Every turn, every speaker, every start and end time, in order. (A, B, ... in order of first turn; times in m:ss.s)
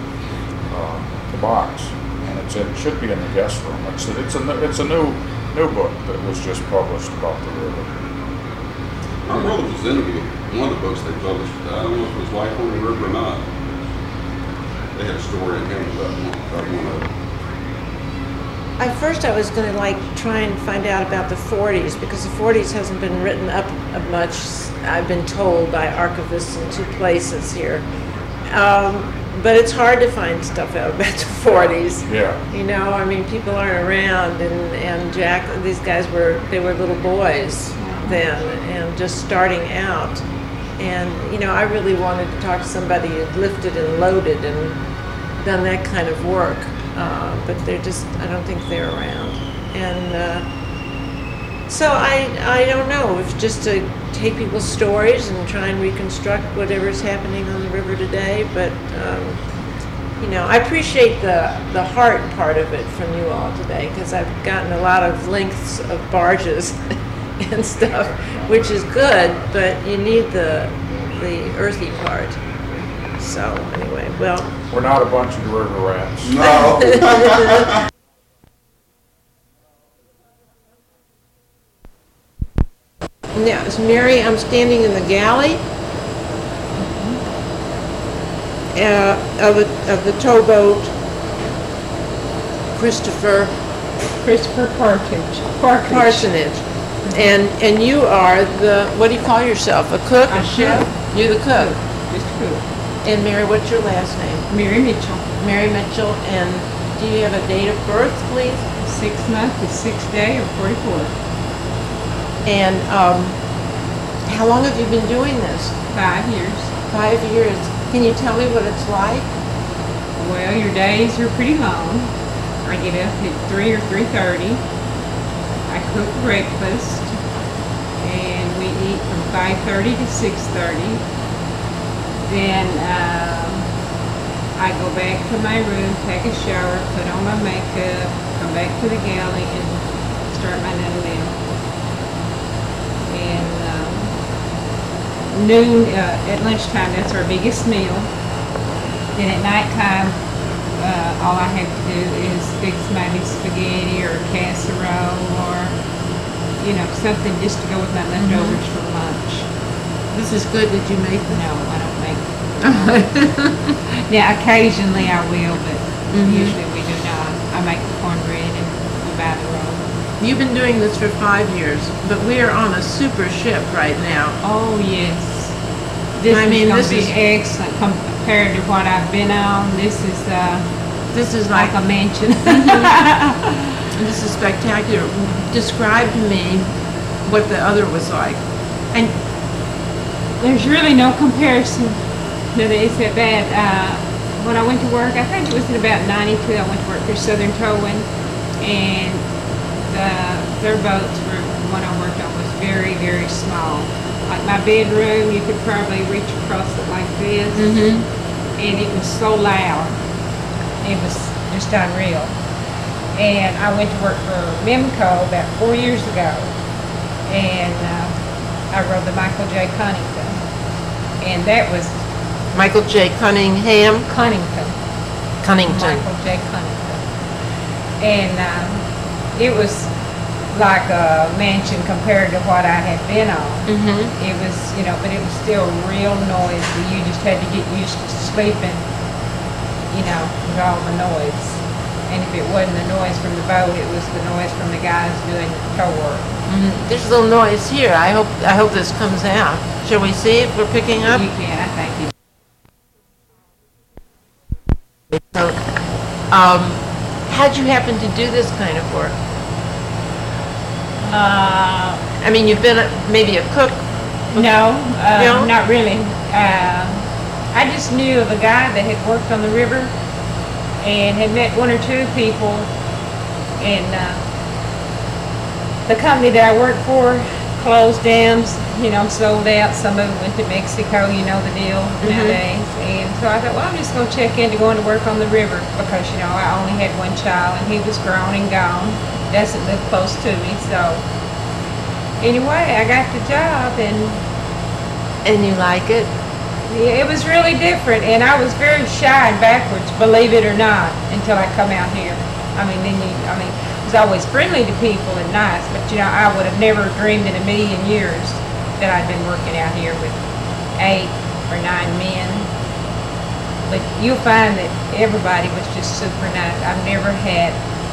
0:00.7-0:08.0 A
0:09.2-0:13.5 B
0:14.9-0:17.0 B
0:18.8-0:27.8 C
0:28.5-0:40.2 C
0:31.5-0:32.4 A
0:40.8-0:44.8 C
0:45.4-0:50.4 C
0:51.7-0:59.4 C
1:00.2-1:06.8 C
1:07.4-1:12.4 C
1:13.2-1:14.5 C
1:14.7-1:16.6 A
1:16.2-1:17.7 B
1:16.4-1:17.6 C
1:23.3-1:25.6 C
1:26.8-1:27.2 D
1:28.7-1:30.9 C
1:32.7-1:33.5 C
1:34.2-1:36.3 D
1:35.9-1:41.7 C
1:37.0-1:37.3 D
1:40.3-1:40.9 D
1:41.5-1:42.6 D
1:43.0-1:44.5 C
1:44.5-1:45.2 D
1:45.4-1:48.6 C
1:48.8-1:51.1 D
1:52.4-1:53.4 C
1:54.2-1:55.8 C
1:55.9-1:56.7 D
1:56.9-1:59.3 C
2:00.2-2:02.1 D
2:02.6-2:04.6 D
2:05.7-2:07.2 D
2:08.0-2:11.0 D
2:12.2-2:13.6 D
2:14.6-2:21.4 D
2:23.1-2:24.1 D
2:25.3-2:28.1 D
2:29.1-2:30.2 D
2:30.8-2:35.8 D
2:36.6-2:39.5 D
2:38.2-2:38.6 C
2:40.1-2:41.4 C
2:41.3-2:49.8 D
2:42.6-2:43.0 C
2:46.1-2:46.6 C
2:50.2-2:54.4 C
2:54.4-2:55.5 D
2:56.2-3:00.6 D
2:56.3-2:57.1 C
3:01.1-3:01.7 C
3:01.5-3:03.8 D
3:02.4-3:02.9 C
3:03.9-3:06.7 C
3:07.2-3:08.4 C
3:10.4-3:12.0 D
3:12.5-3:18.1 D
3:18.6-3:19.2 D
3:19.9-3:27.7 D
3:27.5-3:28.0 C
3:28.6-3:30.0 D
3:30.8-3:32.3 D
3:33.1-3:36.5 D
3:37.3-3:38.1 D
3:38.7-3:40.4 D
3:41.2-3:42.0 D
3:42.5-3:44.1 C
3:44.1-3:44.8 D
3:45.4-3:46.0 C
3:45.6-3:47.0 D
3:48.0-3:48.8 D
3:49.3-3:49.9 D
3:50.5-3:58.8 D
3:53.7-3:54.1 C
3:59.9-4:06.3 D
4:06.5-4:11.2 C
4:11.0-4:12.1 D
4:16.3-4:19.2 C
4:21.0-4:22.0 D
4:22.2-4:23.8 C
4:24.3-4:29.9 D
4:25.1-4:25.5 C
4:30.8-4:32.7 D
4:33.6-4:34.2 D
4:35.9-4:51.0 D
4:42.0-4:42.4 C
4:52.2-4:54.2 D
4:55.2-4:56.1 C
4:56.6-5:10.2 D
5:10.8-5:12.5 D
5:13.6-5:17.6 D